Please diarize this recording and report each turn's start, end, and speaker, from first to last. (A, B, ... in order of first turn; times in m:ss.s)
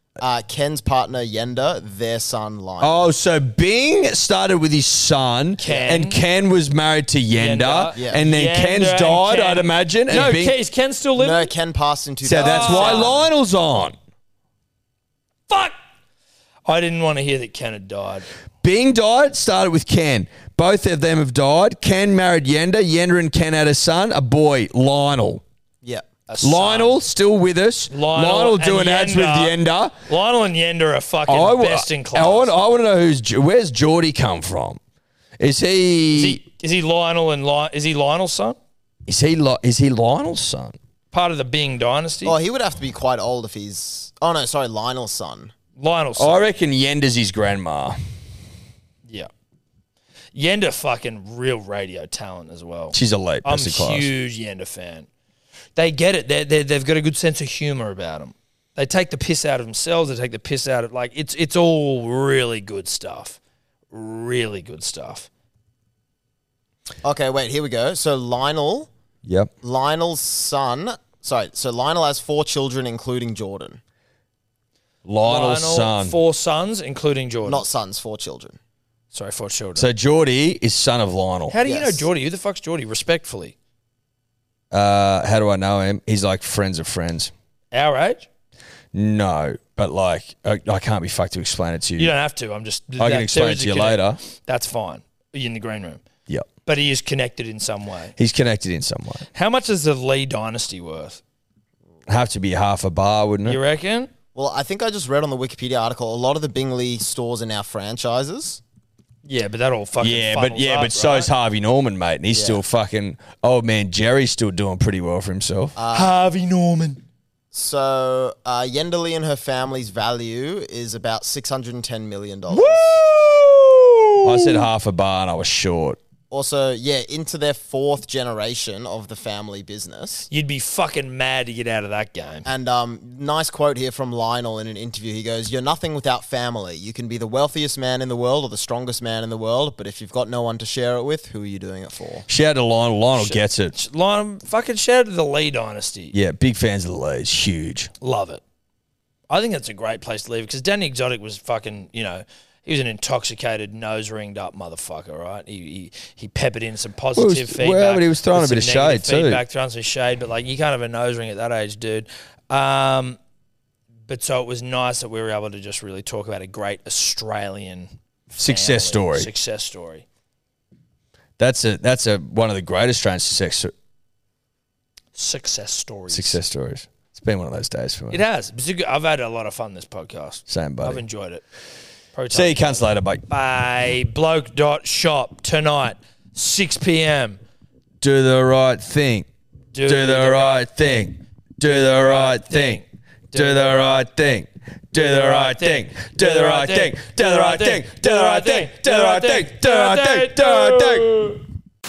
0:00.2-0:03.0 A
0:02.8-0:10.6 B
0:05.6-0:06.2 C
0:07.4-0:11.5 C
0:11.2-0:13.3 A
0:12.2-0:14.0 B
0:12.4-0:13.2 C
0:15.5-0:15.7 C
0:16.6-0:18.3 C
0:18.6-0:25.4 B
0:26.3-0:27.0 C
0:26.4-0:30.0 B
0:27.9-0:29.6 C
0:30.1-0:32.5 C
0:31.3-0:34.8 B
0:35.4-0:36.4 B
0:36.1-0:38.6 C
0:39.0-0:40.8 B
0:41.1-0:42.4 C
0:42.2-0:45.5 A
0:45.8-0:46.4 C
0:46.2-0:48.0 B
0:50.3-0:55.1 C
0:52.9-0:54.1 B
0:55.8-1:03.4 C
1:03.9-1:05.3 C
1:07.0-1:08.9 A
1:09.2-1:09.5 B
1:09.6-1:13.8 A
1:15.0-1:16.2 B
1:15.2-1:17.6 C
1:17.4-1:18.6 A
1:19.1-1:19.9 C
1:19.8-1:21.6 B
1:21.5-1:23.5 C
1:21.6-1:22.0 A
1:24.7-1:27.3 B
1:27.7-1:28.3 C
1:28.9-1:32.1 B
1:32.0-1:36.0 C
1:33.0-1:34.2 B
1:36.6-1:38.1 C
1:38.2-1:39.3 B
1:39.3-1:41.2 C
1:42.1-1:43.6 B
1:43.4-1:44.1 C
1:44.3-1:48.6 A
1:49.2-1:51.3 C
1:50.0-1:55.7 B
1:52.3-1:52.6 A
1:55.8-1:56.1 A
1:55.9-1:57.0 C
1:57.5-2:03.0 A
2:02.5-2:04.5 C
2:04.2-2:06.0 B
2:06.3-2:10.3 A
2:10.3-2:12.5 C
2:12.4-2:22.2 A
2:22.3-2:23.7 B
2:23.1-2:26.1 C
2:26.1-2:27.9 B
2:28.0-2:28.4 C
2:29.3-2:43.2 C
2:37.2-2:39.4 B
2:44.1-2:50.0 C
2:48.4-2:49.3 B
2:51.4-2:53.7 B
2:55.1-2:56.4 C
2:56.1-2:58.2 B
2:58.1-3:01.4 C
3:00.5-3:01.0 B
3:02.1-3:07.4 C
3:02.3-3:03.2 B
3:08.0-3:09.3 B
3:09.7-3:11.0 C
3:09.8-3:21.3 B
3:11.7-3:14.0 C
3:14.9-3:21.4 C